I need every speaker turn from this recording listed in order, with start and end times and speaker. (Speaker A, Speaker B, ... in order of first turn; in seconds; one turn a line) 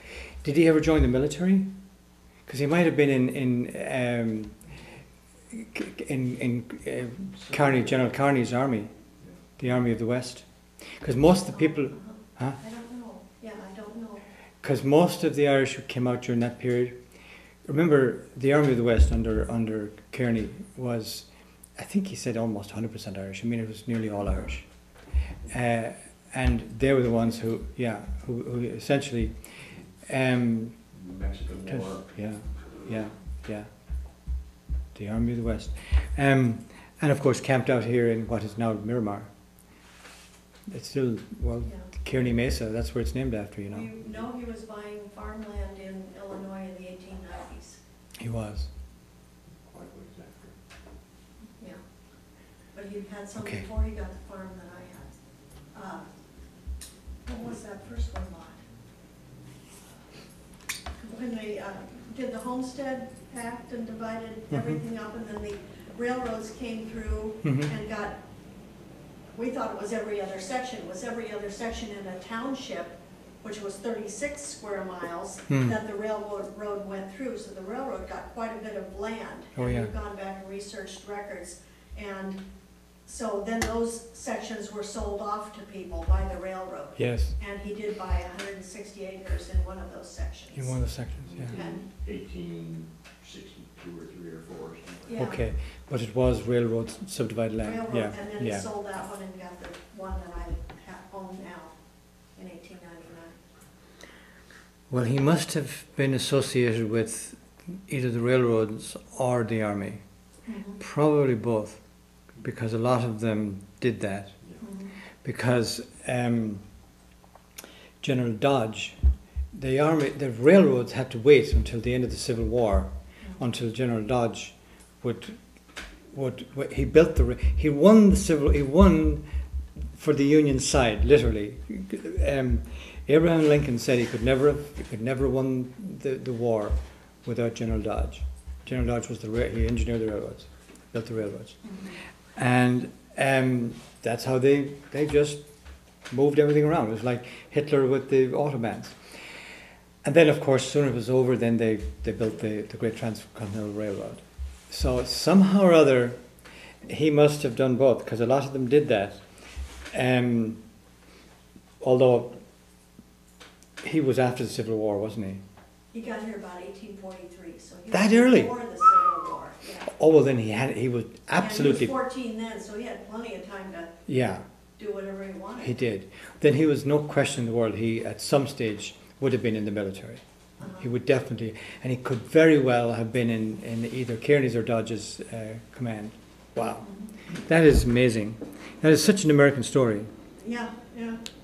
Speaker A: 0.4-1.7
Speaker A: 2.5-4.8
Speaker A: 5.5-12.6
Speaker B: 7.3-8.0
Speaker C: 11.5-14.2
Speaker A: 14.6-17.1
Speaker A: 17.7-30.9
Speaker B: 30.9-33.1
Speaker A: 31.7-34.3
Speaker A: 34.9-39.3
Speaker A: 40.7-43.9
Speaker C: 41.6-41.9
Speaker C: 43.7-47.8
Speaker A: 48.2-48.7
Speaker B: 49.5-50.6
Speaker C: 51.6-55.2
Speaker A: 53.4-53.6
Speaker C: 55.7-56.0
Speaker C: 57.2-58.6
Speaker C: 61.0-68.2
Speaker A: 64.5-64.8
Speaker A: 67.4-67.7
Speaker C: 69.3-82.4
Speaker A: 75.5-75.8
Speaker A: 79.5-79.9
Speaker C: 83.0-90.8
Speaker A: 87.0-87.4
Speaker A: 90.5-91.6
Speaker B: 91.2-95.1
Speaker C: 91.5-91.9
Speaker C: 95.1-95.5
Speaker A: 95.2-98.7
Speaker C: 97.6-103.4
Speaker A: 104.9-117.0
Speaker C: 110.5-110.8
Speaker C: 114.6-114.9
Speaker A: 118.0-149.4
Speaker C: 141.7-141.9
Speaker A: 150.0-156.3
Speaker A: 156.8-160.7
Speaker A: 161.8-162.5
Speaker A: 163.8-165.4
Speaker C: 165.9-169.9
Speaker A: 167.9-168.7
Speaker A: 169.9-171.9
Speaker C: 171.4-174.0
Speaker A: 174.1-174.4
Speaker C: 174.8-175.7
Speaker A: 175.6-190.1
Speaker C: 180.6-180.9
Speaker C: 186.8-187.1
Speaker C: 190.4-191.2